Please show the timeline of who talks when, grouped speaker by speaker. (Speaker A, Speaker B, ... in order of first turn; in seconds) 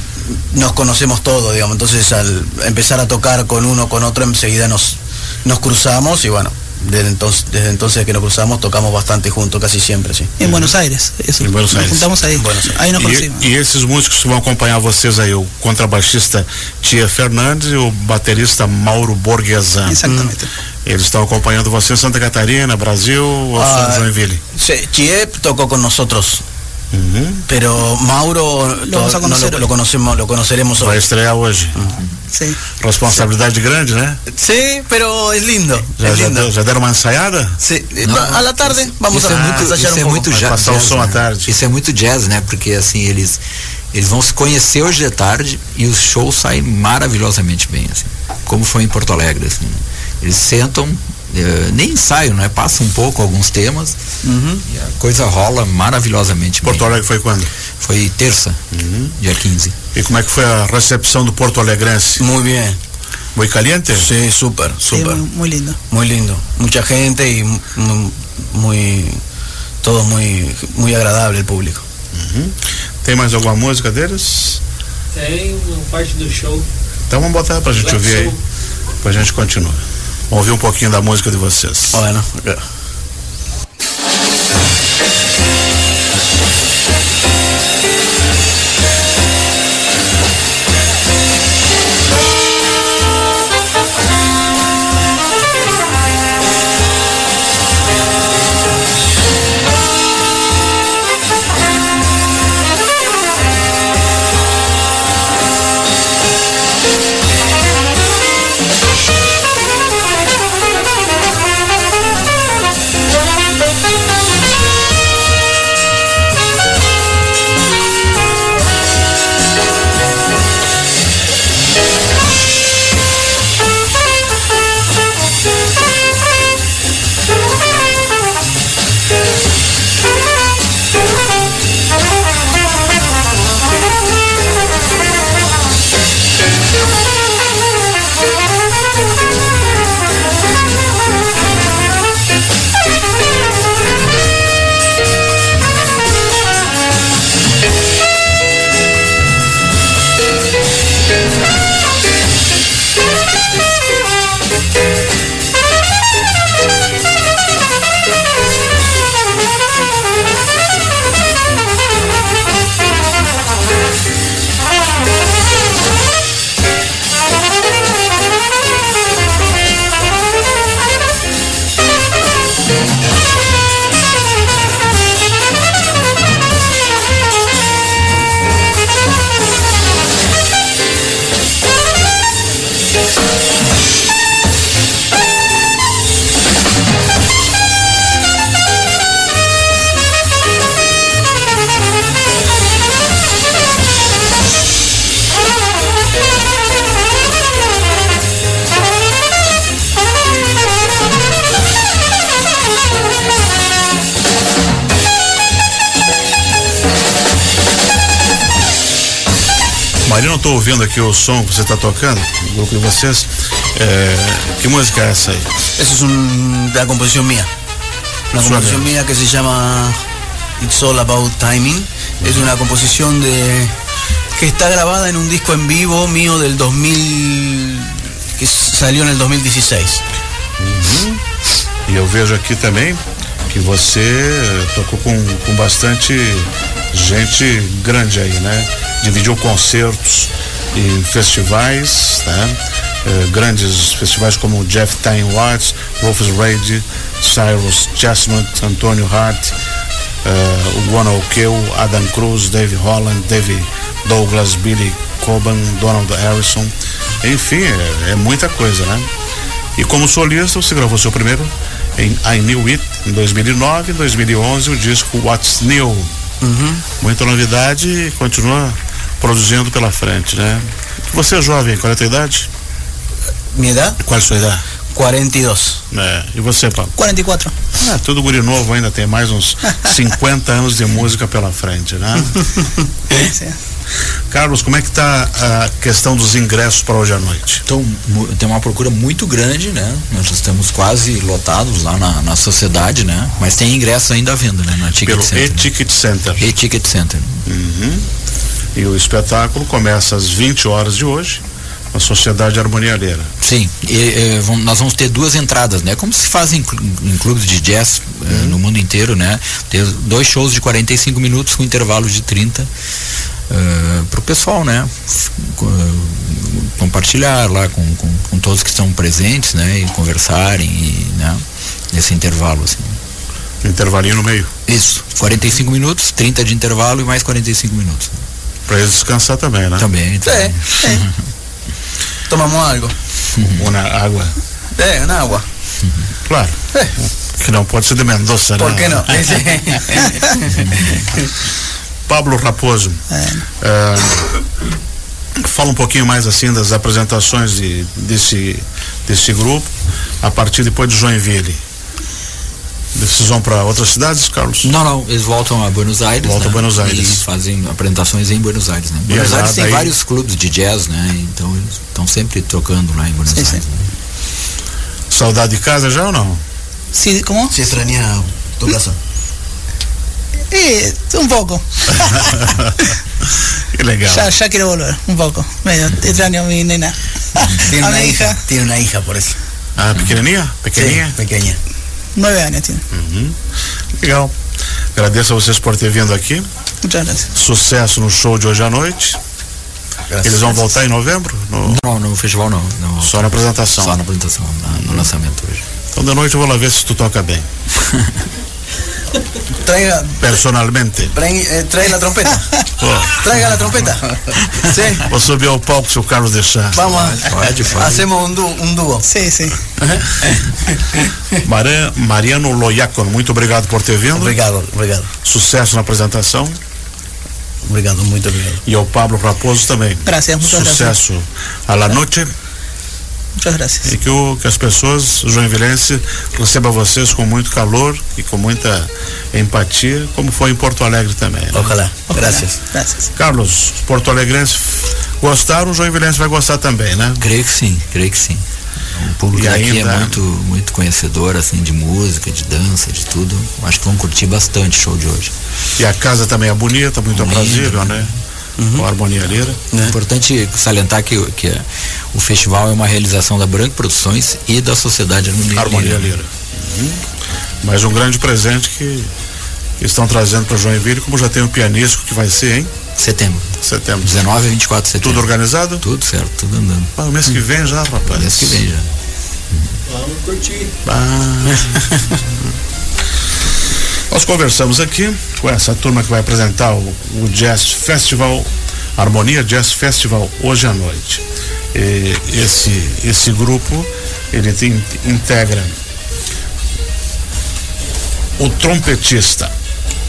Speaker A: 0.2-10.4, 12.3-12.8, 20.0-20.3, 23.5-26.4, 27.5-31.0, 34.3-36.5, 37.6-40.4, 54.2-54.6, 62.2-62.8, 63.9-65.2, 65.9-69.2, 69.8-71.8, 81.9-82.6, 215.8-217.5, 218.3-220.0, 220.6-223.7, 224.3-230.0, 266.4-266.8, 273.5-274.0, 274.9-275.8, 330.2-331.0, 332.3-332.9, 334.8-335.4, 338.6-341.2, 367.5-369.0, 377.6-379.4, 380.8-381.6, 390.1-390.6, 399.6-400.3, 401.1-402.6, 403.1-405.1, 406.7-409.1, 409.8-410.6, 414.1-415.1, 417.6-418.6, 431.5-432.6, 448.6-448.8
Speaker B: 10.4-13.5, 19.8-20.5, 28.9-29.6, 32.3-32.6, 64.8-65.8, 277.0-277.5, 283.1-283.6, 343.1-343.4, 363.3-363.6, 366.9-367.5, 370.5-372.9, 374.1-378.4, 382.1-382.8, 386.8-387.3, 409.1-409.6, 420.1-421.0, 423.4-423.9, 432.1-433.1
Speaker C: 10.4-10.7, 11.4-12.1, 12.9-20.0, 20.8-24.4, 26.9-27.5, 30.8-31.8, 32.8-34.2, 36.0-37.6, 39.2-39.7, 40.3-41.5, 56.6-57.5, 58.7-59.1, 59.9-62.2, 63.3-64.1, 72.1-74.6, 77.1-78.4, 79.0-82.0, 210.0-215.5, 218.4-218.9, 230.6-231.2, 231.8-249.5, 250.2-259.1, 259.8-266.1, 267.0-272.5, 274.0-274.6, 275.9-276.9, 277.7-282.5, 284.3-287.6, 295.0-296.5, 297.4-298.1, 298.7-301.4, 301.9-303.3, 308.3-308.6, 323.6-324.5, 328.7-329.9, 333.4-334.3, 336.2-336.6, 337.4-339.3, 342.1-344.3, 345.4-349.7, 350.2-351.6, 352.9-354.7, 356.2-357.2, 359.1-359.9, 365.1-366.4, 372.4-372.7, 373.7-374.3, 379.8-381.2, 382.9-383.4, 384.0-384.3, 384.9-386.4, 387.3-389.2, 390.2-391.8, 393.0-394.0, 394.7-395.1, 395.9-397.5, 400.2-401.1, 402.8-403.2, 405.0-406.9, 411.4-414.4, 415.2-416.6, 418.6-422.3, 423.8-431.8, 433.1-437.2, 439.3-440.2, 445.8-448.1, 448.7-449.6, 455.5-457.0, 457.6-459.1, 459.8-462.7, 463.6-464.1, 465.0-465.8, 466.9-468.6, 470.8-471.9, 474.1-485.8, 488.4-489.5
Speaker D: 38.0-43.4, 43.9-54.0, 54.6-57.0, 57.8-58.6, 59.2-59.7, 287.7-295.7, 296.4-297.4, 303.4-312.7, 313.5-323.0, 324.7-328.1, 329.8-331.1, 333.4-333.6, 354.6-363.9, 391.6-395.6, 406.8-408.0, 437.2-438.4, 438.9-445.3, 447.1-448.0, 449.8-456.1, 463.0-466.9, 468.1-468.9, 469.5-469.8
Speaker E: 75.1-76.7, 470.0-470.7